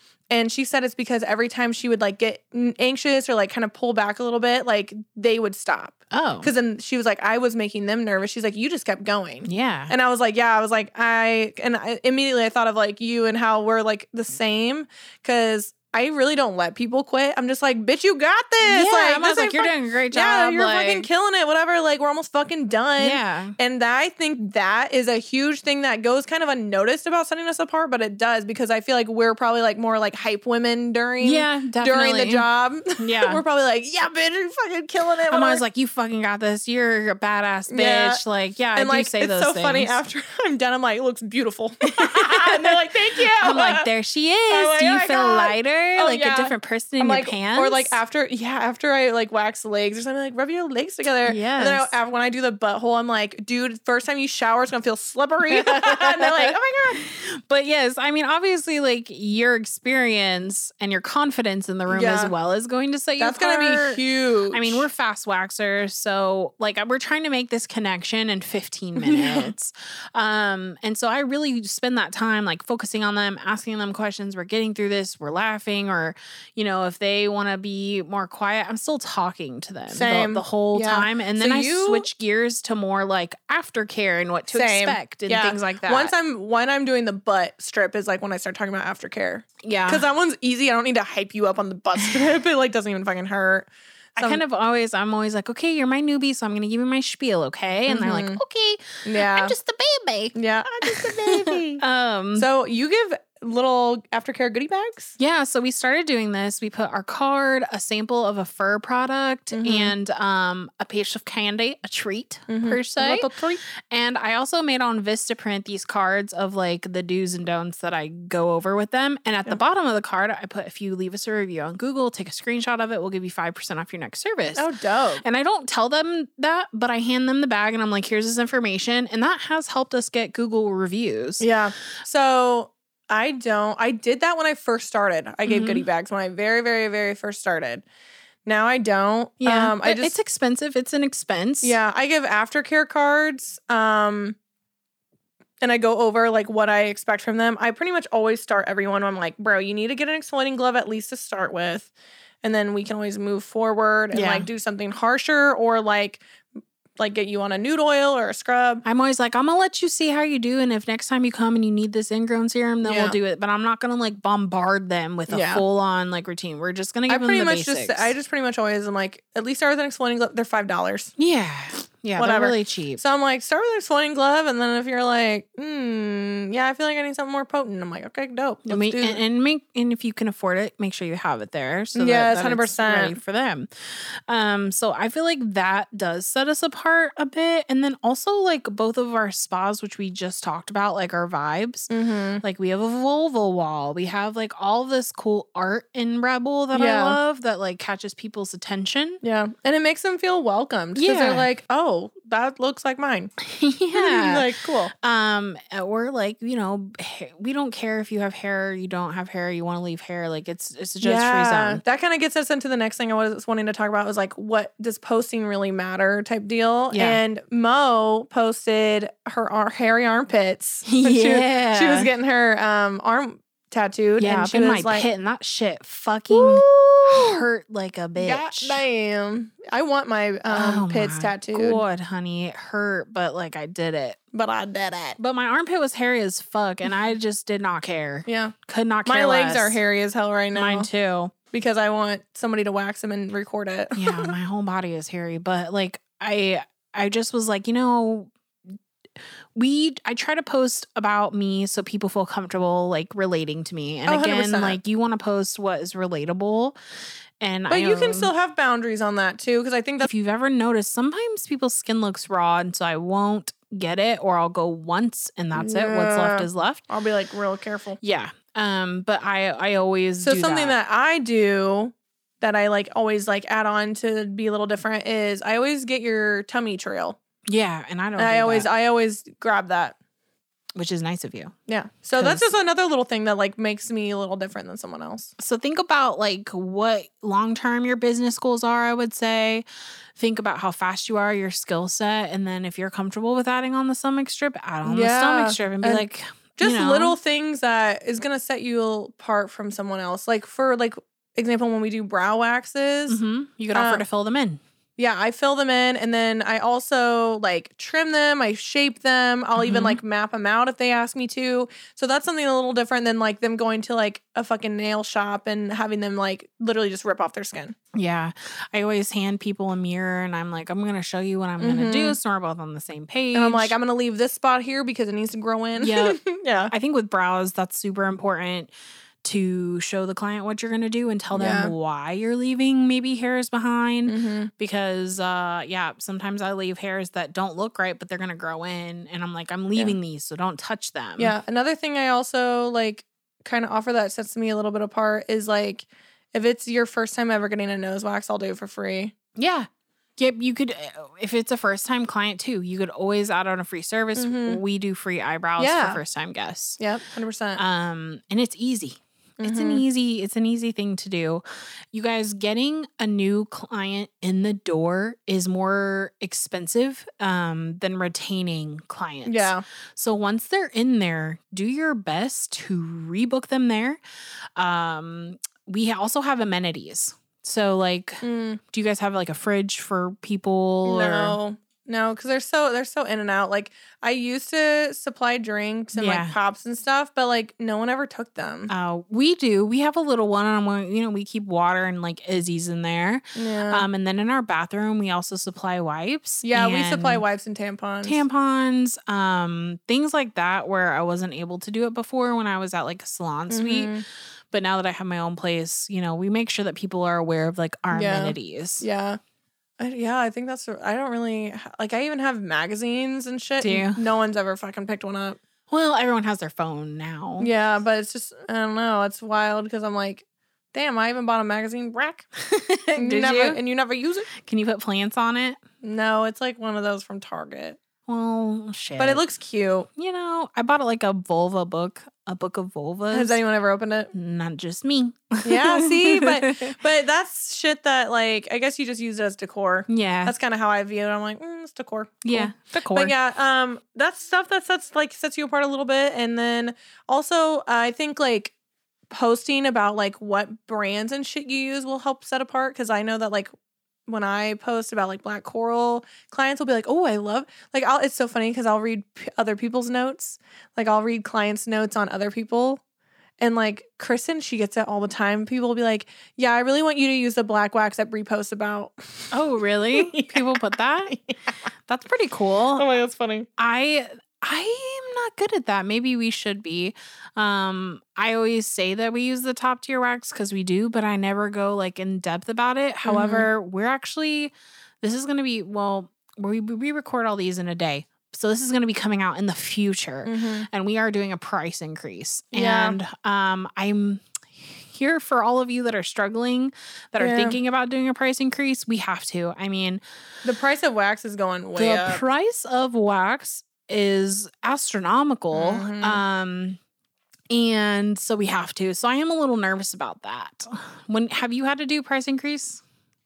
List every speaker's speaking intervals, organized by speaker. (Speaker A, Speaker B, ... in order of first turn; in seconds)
Speaker A: 0.3-35.6, 37.7-38.2, 38.8-43.9, 44.5-57.0, 61.9-62.3, 63.2-64.9, 69.0-69.5, 79.9-82.1, 84.5-94.4, 97.9-98.4, 99.0-99.5, 100.3-101.8, 102.4-105.2, 109.5-110.0, 112.5-113.6, 124.6-125.2, 131.4-137.8, 138.5-140.2, 141.6-144.4, 145.6-151.9, 152.4-156.2, 157.0-158.8, 162.8-163.2, 165.3-165.6, 167.1-171.1, 172.2-179.2, 181.9-183.2, 191.9-192.4, 196.7-197.2, 199.2-203.3, 203.9-204.9, 211.0-225.1, 226.3-227.4, 228.2-231.8, 234.3-235.2, 238.3-238.5, 239.1-240.9, 241.5-244.3, 254.1-254.8, 257.7-260.1, 265.5-268.0, 270.2-277.2, 278.2-279.9, 281.7-285.3, 294.9-296.1, 296.6-303.2, 303.7-304.0, 305.0-317.8, 321.6-322.2, 323.3-326.7, 331.3-331.7, 334.1-334.5, 341.2-349.1, 354.2-354.6, 355.6-356.0, 356.8-357.6, 359.4-359.8, 369.2-369.6, 378.2-378.6, 380.9-388.7, 393.4-393.9, 396.4-398.2, 403.5-404.0, 407.9-409.2, 409.8-415.4, 417.4-422.3, 423.0-424.3, 425.8-427.8, 429.0-429.9, 433.1-434.1, 435.4-448.5, 449.1-453.5, 454.1-462.8, 463.4-469.4, 469.9-470.5, 471.1-471.4, 472.8-473.5, 483.0-483.5, 490.2-490.7, 492.5-493.0, 497.2-497.6, 500.4-502.2, 505.5-506.2
Speaker B: 6.1-6.5, 9.4-9.9, 18.6-21.1, 23.0-23.6, 31.2-32.5, 33.0-33.4, 35.3-40.0, 41.9-42.8, 43.4-48.0, 51.2-51.9, 55.5-86.1, 89.6-90.0, 92.0-92.3, 94.2-102.5, 105.2-113.3, 113.9-124.7, 125.2-131.5, 135.5-135.9, 139.4-141.8, 154.1-154.5, 158.8-168.1, 171.2-173.0, 178.7-191.9, 192.4-199.2, 201.0-201.5, 203.4-211.8, 216.9-217.2, 220.8-222.1, 224.2-228.8, 230.5-234.2, 235.2-239.8, 240.5-241.3, 244.0-248.3, 249.6-256.8, 257.4-258.3, 260.0-266.8, 268.0-270.8, 277.5-278.7, 280.8-281.6, 282.1-282.5, 285.4-289.6, 290.2-297.2, 303.1-304.6, 309.6-310.0, 317.9-323.8, 325.8-328.7, 329.2-341.4, 349.4-356.8, 357.6-374.0, 374.6-381.4, 385.9-386.4, 388.7-397.2, 398.1-404.0, 404.5-408.9, 413.6-414.0, 415.7-417.5, 422.4-423.6, 424.4-425.6, 428.1-429.2, 430.0-433.4, 434.1-436.8, 439.9-440.4, 442.2-443.1, 469.3-471.1, 471.9-472.9, 473.6-500.0, 501.8-506.8, 507.5-512.8